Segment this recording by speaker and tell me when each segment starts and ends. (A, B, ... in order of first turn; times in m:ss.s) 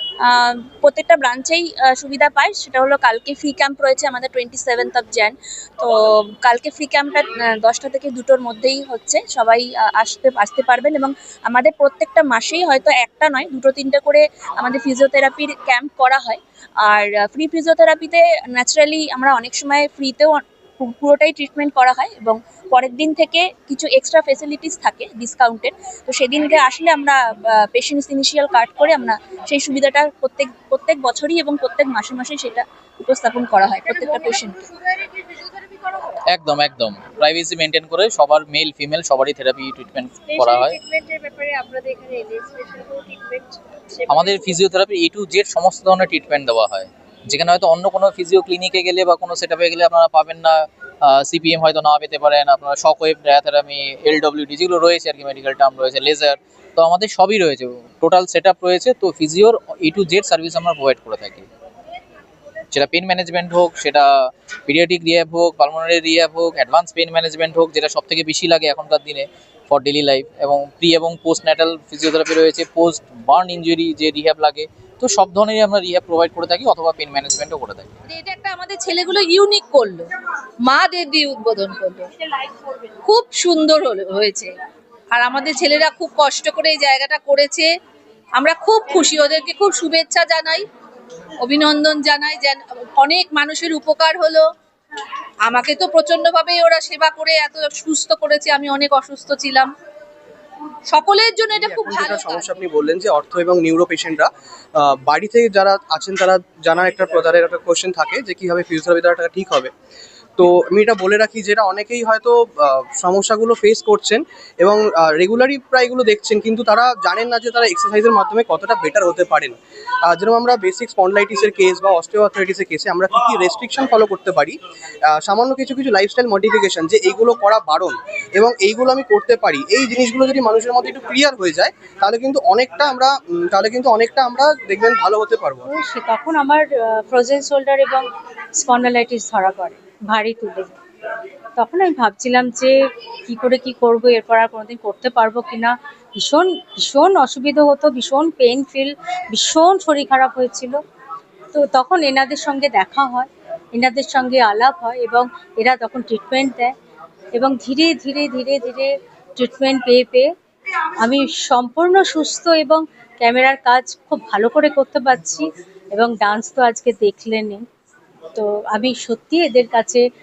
0:00.2-0:34.7 A
0:33.9-0:36.0 B
0:36.3-0:40.8 C
0:40.2-0:44.6 B
0:44.1-1:01.5 C
1:02.7-1:04.1 C
1:04.7-1:17.9 C
1:18.1-1:20.1 D
1:20.6-1:22.1 D
1:23.0-1:24.5 D
1:25.1-1:27.7 D
1:28.4-1:30.7 D
1:31.4-1:34.5 D
1:35.4-1:39.7 D
1:40.9-1:42.5 D
1:41.5-1:49.7 E
1:50.4-1:59.6 E
2:00.1-2:04.6 E
2:05.1-2:15.7 E
2:15.7-2:20.8 F
2:21.6-2:22.8 F
2:23.3-2:30.8 F
2:31.5-2:36.7 F
2:37.3-2:40.3 F
2:41.0-2:47.7 F
2:48.4-2:50.0 F